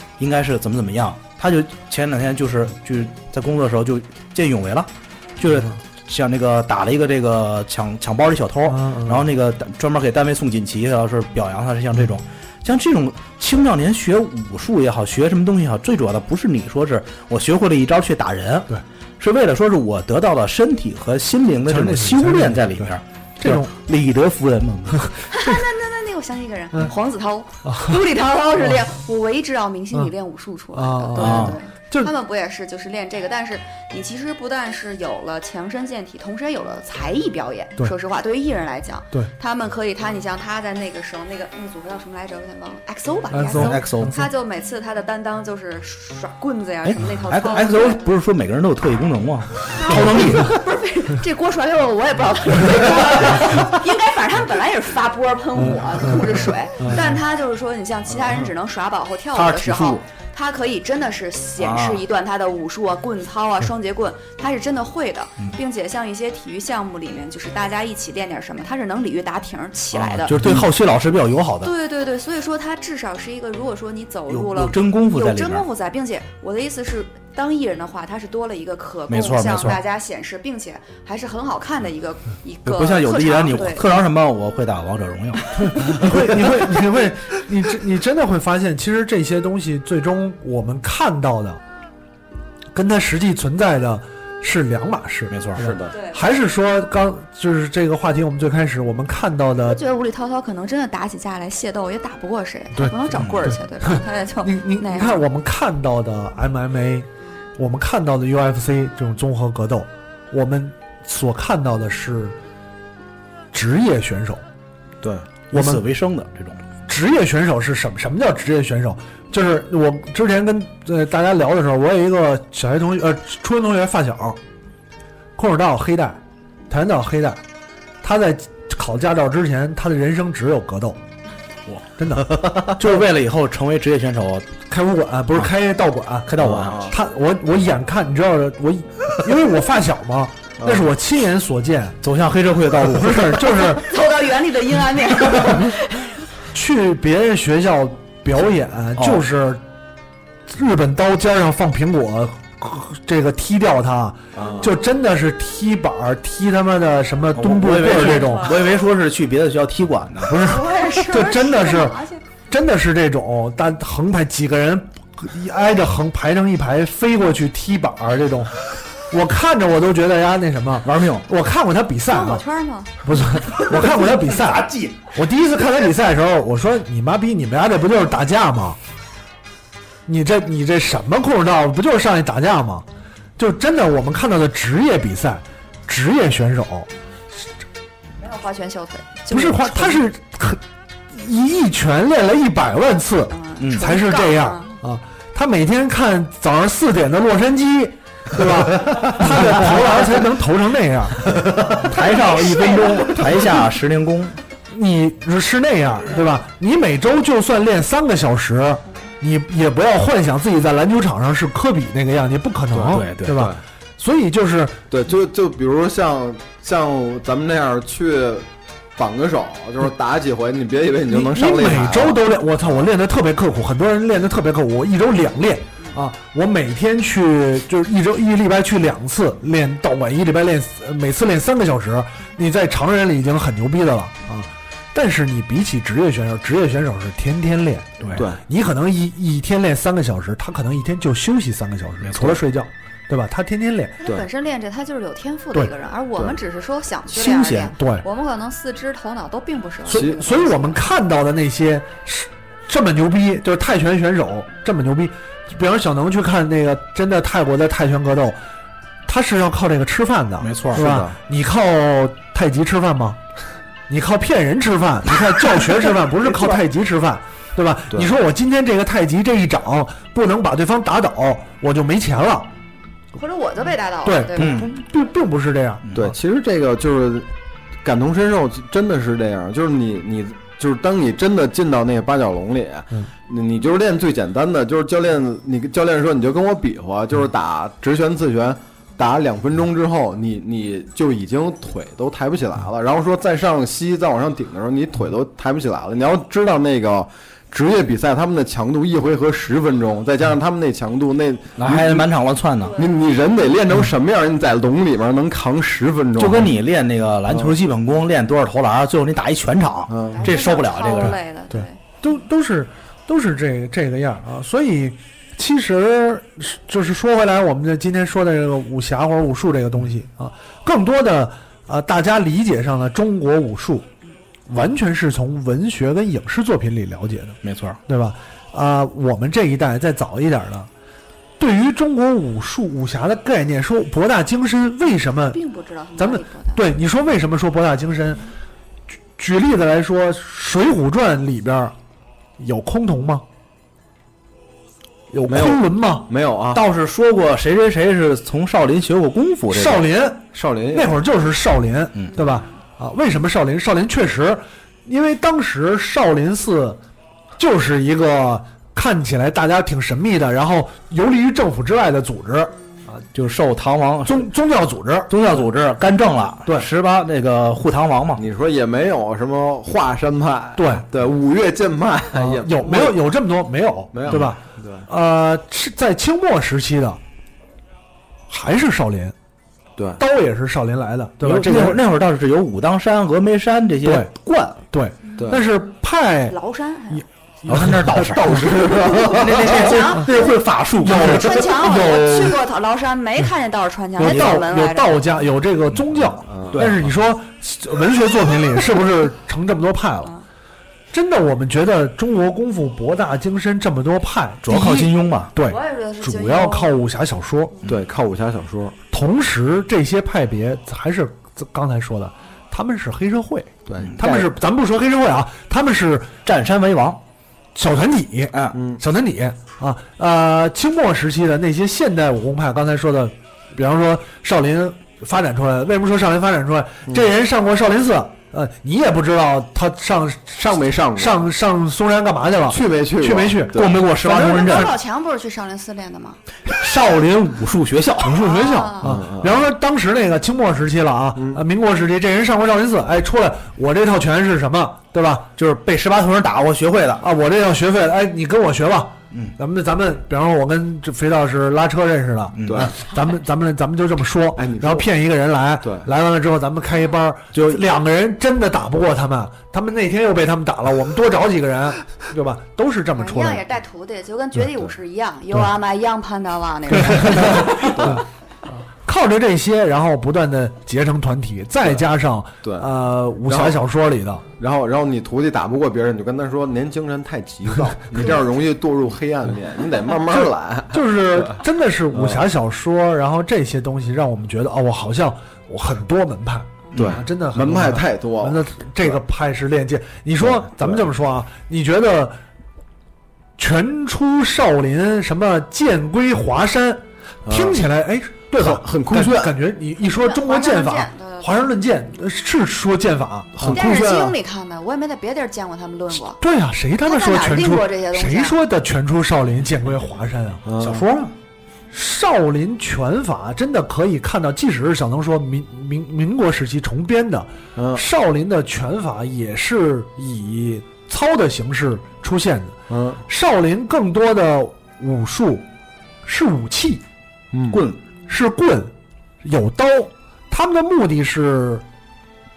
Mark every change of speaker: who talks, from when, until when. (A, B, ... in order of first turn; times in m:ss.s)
0:00.2-0:25.2 A
0:08.7-0:09.2 B
0:21.7-0:22.9 B
0:23.4-0:23.7 B
0:25.3-0:48.1 C
0:27.6-0:28.0 B
0:30.7-0:32.1 B
0:31.2-0:31.6 A
0:43.3-0:44.2 B
0:43.5-0:44.2 A
0:46.8-0:50.5 A
0:49.7-1:10.3 C
0:49.9-0:50.4 B
0:55.6-0:56.2 B
0:56.8-0:57.0 B
0:59.3-0:59.9 A
1:01.6-1:02.0 A
1:09.9-1:11.7 A
1:11.6-1:23.9 C
1:14.3-1:15.6 A
1:19.1-1:19.8 A
1:22.6-1:26.4 A
1:25.6-1:31.6 B
1:32.7-1:39.8 B
1:35.3-1:35.8 A
1:35.6-1:35.9 D
1:35.9-1:36.2 C
1:39.6-1:45.2 C
1:43.4-1:52.4 B
1:53.5-1:54.4 B
1:55.5-1:56.6 A
1:55.5-1:55.8 B
1:56.9-2:04.4 B
2:05.4-2:07.4 B
2:08.0-2:11.0 B
2:11.7-2:14.5 A
2:12.0-2:13.0 B
2:14.7-2:16.3 B
2:16.3-2:16.9 A
2:16.4-2:16.9 D
2:16.8-2:22.0 B
2:20.6-2:20.9 D
2:22.0-2:23.6 A
2:22.8-2:23.9 B
2:23.7-2:26.1 C
2:26.5-2:29.6 B
2:29.0-2:29.2 A
2:30.5-2:38.6 B
2:34.4-2:34.7 D
2:37.3-2:40.6 A
2:38.0-2:38.6 C
2:40.2-2:42.0 B
2:40.3-2:42.2 C
2:42.5-2:52.4 B
2:50.8-2:51.2 A
2:52.1-2:52.9 C
2:53.0-2:58.8 B
2:53.6-2:55.0 A
3:00.0-3:02.8 B
3:03.4-3:06.9 B
3:08.2-3:10.0 C
3:09.3-3:10.6 B
3:11.1-3:21.9 B
3:13.3-3:14.8 C
3:13.6-3:13.8 A
3:19.2-3:20.0 A
3:21.3-3:24.4 A
3:21.9-3:23.5 C
3:24.7-3:34.8 B
3:32.7-3:33.6 D
3:32.8-3:33.5 A
3:34.9-3:42.9 D
3:41.1-4:04.0 B
3:58.1-3:58.4 D
4:02.0-4:02.4 A
4:04.0-4:10.8 C
4:07.1-4:07.7 A
4:07.7-4:08.0 B
4:09.9-4:10.3 D
4:09.9-4:18.4 B
4:19.0-4:23.2 B
4:20.4-4:20.8 A
4:20.7-4:21.2 D
4:23.9-4:32.5 B
4:25.1-4:26.6 A
4:33.1-4:34.5 C
4:34.0-4:35.9 B
4:34.4-4:34.7 A
4:35.9-4:37.3 D
4:37.8-5:02.1 D
5:01.6-5:02.8 A
5:02.7-5:06.5 D
5:06.2-5:11.2 A
5:07.3-5:07.6 D
5:09.9-5:10.3 D
5:10.1-5:11.8 C
5:11.0-5:23.9 B
5:24.5-5:30.7 B
5:27.4-5:27.8 A
5:31.4-5:35.4 B
5:35.3-5:36.6 C
5:36.0-5:38.2 B
5:39.2-5:41.7 B
5:42.4-5:43.2 B
5:45.1-5:46.1 B
5:45.3-5:46.6 D
5:46.5-5:49.9 A
5:49.5-5:56.8 B
5:50.3-5:51.0 D
5:57.4-6:03.0 B
6:03.1-6:04.3 A
6:04.0-6:05.1 B
6:05.1-6:08.2 A
6:08.2-6:13.0 D
6:10.6-6:10.8 B
6:12.1-6:17.0 B
6:13.9-6:14.9 D
6:18.3-6:19.1 B
6:20.0-6:21.8 B
6:21.2-6:24.6 A
6:23.8-6:24.1 B
6:24.7-6:26.4 B
6:25.2-6:25.5 D
6:26.3-6:27.0 C
6:26.9-6:28.4 B
6:27.5-6:31.5 A
6:28.2-6:29.7 D
6:29.4-6:35.0 C
6:30.8-6:32.3 B
6:34.0-6:40.1 B
6:34.0-6:34.4 A
6:36.3-6:36.6 D
6:36.5-6:36.9 A
6:40.9-6:47.6 B
6:44.4-6:45.3 A
6:45.4-6:46.8 C
6:47.6-6:48.8 D
6:48.9-6:56.1 B
6:53.6-6:54.3 D
6:53.8-6:54.2 A
6:56.2-6:57.0 A
6:57.5-7:14.7 B
6:58.5-6:58.8 D
7:10.4-7:11.3 D
7:12.5-7:13.9 D
7:13.5-7:14.7 A
7:14.0-7:16.2 C
7:16.5-7:18.3 A
7:18.0-7:25.3 B
7:18.2-7:18.9 C
7:18.8-7:19.5 D
7:21.2-7:21.4 D
7:25.4-7:27.0 A
7:27.0-7:43.4 B
7:32.3-7:32.7 A
7:32.4-7:32.7 D
7:34.3-7:34.9 D
7:35.6-7:35.9 D
7:37.3-7:37.6 A
7:42.9-7:47.9 C
7:46.8-7:48.0 B
7:47.5-7:48.0 D
7:48.8-7:54.2 B
7:52.4-7:52.7 D
7:53.2-7:53.6 D
7:54.4-8:02.3 D
8:00.1-8:12.2 B
8:06.7-8:09.0 D
8:10.2-8:10.9 D
8:13.4-8:23.6 B
8:17.2-8:17.6 D
8:18.4-8:19.4 D
8:19.8-8:21.5 C
8:23.4-8:24.2 D
8:23.4-8:26.2 C
8:26.2-8:30.4 B
8:26.8-8:28.4 C
8:30.4-8:30.8 D
8:30.6-8:31.1 A
8:31.7-8:45.4 B
8:37.5-8:37.8 D
8:42.7-8:43.0 D
8:46.0-8:46.8 B
8:47.3-8:47.6 D
8:47.5-8:47.8 A
8:48.1-8:48.7 B
8:49.2-8:51.6 B